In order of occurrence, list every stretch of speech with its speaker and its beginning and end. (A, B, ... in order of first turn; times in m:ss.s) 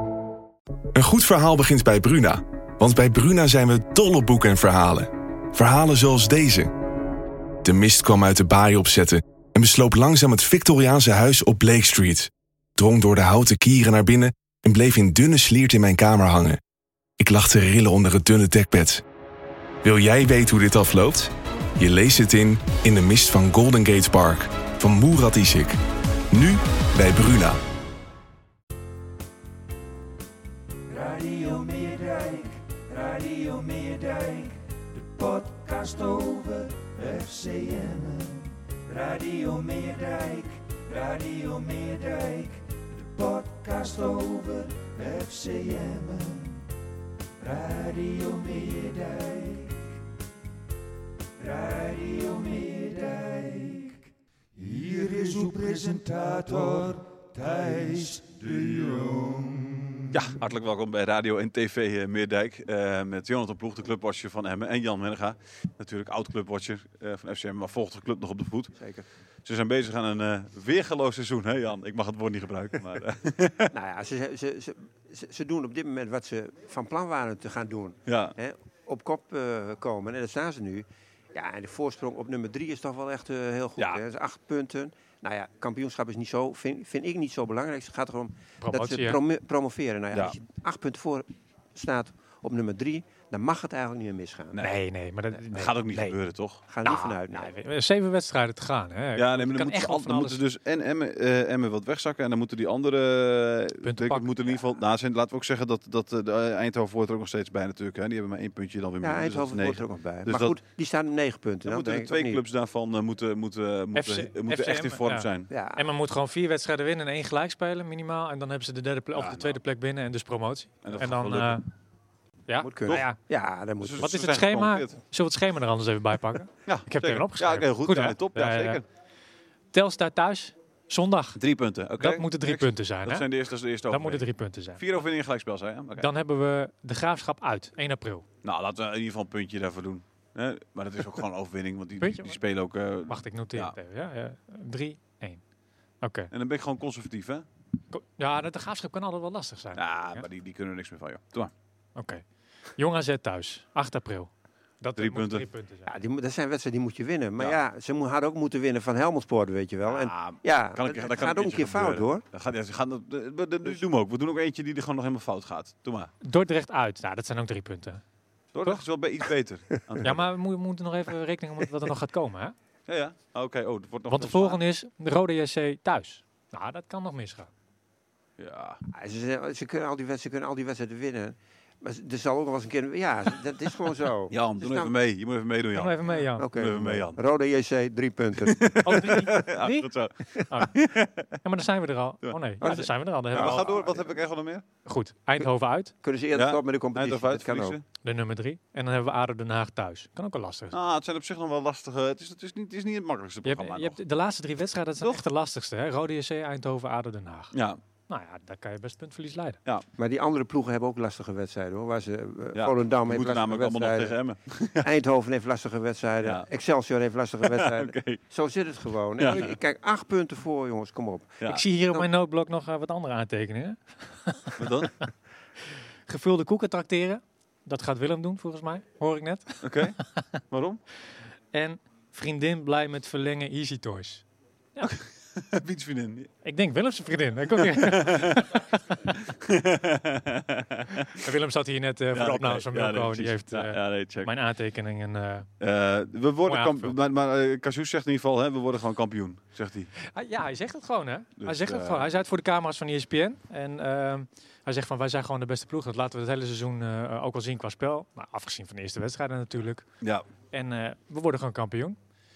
0:00.9-0:06.7 A
0:07.6-0:16.6 A
0:17.2-0:19.0 A
0:19.8-0:25.8 A
0:26.3-0:27.6 A
0:30.9-0:46.6 B
0:47.4-0:49.8 B
0:51.4-0:54.0 B
0:54.6-1:00.2 B
1:00.1-1:08.8 C
1:08.8-1:09.0 D
1:09.4-1:13.7 C
1:13.7-1:34.6 D
1:18.1-1:18.3 C
1:28.6-1:29.2 E
1:34.6-1:36.2 E
1:35.5-1:36.6 C
1:36.7-1:37.6 D
1:36.8-1:40.4 E
1:39.2-1:50.6 C
1:43.8-1:44.3 E
1:49.0-1:52.4 D
1:51.6-1:55.5 C
1:53.9-2:01.6 E
1:55.5-1:55.9 D
1:59.2-1:59.6 C
2:00.8-2:01.6 C
2:02.5-2:03.2 E
2:02.6-2:04.1 D
2:03.8-2:04.9 C
2:04.0-2:08.8 E
2:06.7-2:08.8 C
2:09.7-2:11.4 E
2:11.4-2:16.1 C
2:12.0-2:13.2 E
2:13.9-2:14.8 E
2:16.0-2:18.2 E
2:18.4-2:23.8 C
2:22.0-2:22.4 E
2:23.1-2:25.4 E
2:26.0-2:26.3 E
2:26.3-2:27.4 C
2:27.9-2:30.2 E
2:29.8-2:31.5 C
2:32.0-2:32.2 E
2:32.8-2:35.9 E
2:35.0-2:35.4 C
2:35.8-2:42.2 D
2:39.8-2:46.1 C
2:46.2-2:48.0 E
2:48.5-2:50.3 C
2:50.0-2:52.5 E
2:52.9-2:54.6 C
2:54.1-2:57.5 E
2:58.4-2:58.8 C
2:58.9-3:04.9 D
3:04.3-3:06.0 C
3:05.7-3:06.5 E
3:06.4-3:08.6 D
3:06.5-3:07.2 C
3:08.4-3:11.4 C
3:08.8-3:09.9 E
3:10.5-3:10.8 E
3:11.4-3:13.9 E
3:12.2-3:14.6 C
3:12.6-3:14.0 D
3:14.8-3:15.9 E
3:16.0-3:17.8 D
3:16.3-3:17.8 C
3:18.0-3:20.8 E
3:20.7-3:24.0 C
3:23.4-3:27.5 E
3:27.5-3:27.8 C
3:28.1-3:29.6 E
3:30.0-3:34.2 D
3:32.5-3:34.9 C
3:34.8-3:41.4 D
3:37.4-3:38.2 C
3:39.2-3:39.6 C
3:41.4-3:45.1 E
3:44.6-3:44.9 C
3:46.1-3:49.9 E
3:49.6-3:50.0 C
3:50.5-3:50.8 C
3:51.5-3:54.2 E
3:55.3-3:56.3 C
3:56.4-3:59.1 E
3:57.6-4:01.3 C
4:01.1-4:05.5 E
4:02.1-4:04.3 C
4:05.6-4:09.9 C
4:06.5-4:06.9 E
4:10.0-4:19.9 E
4:11.4-4:12.1 C
4:20.5-4:22.0 E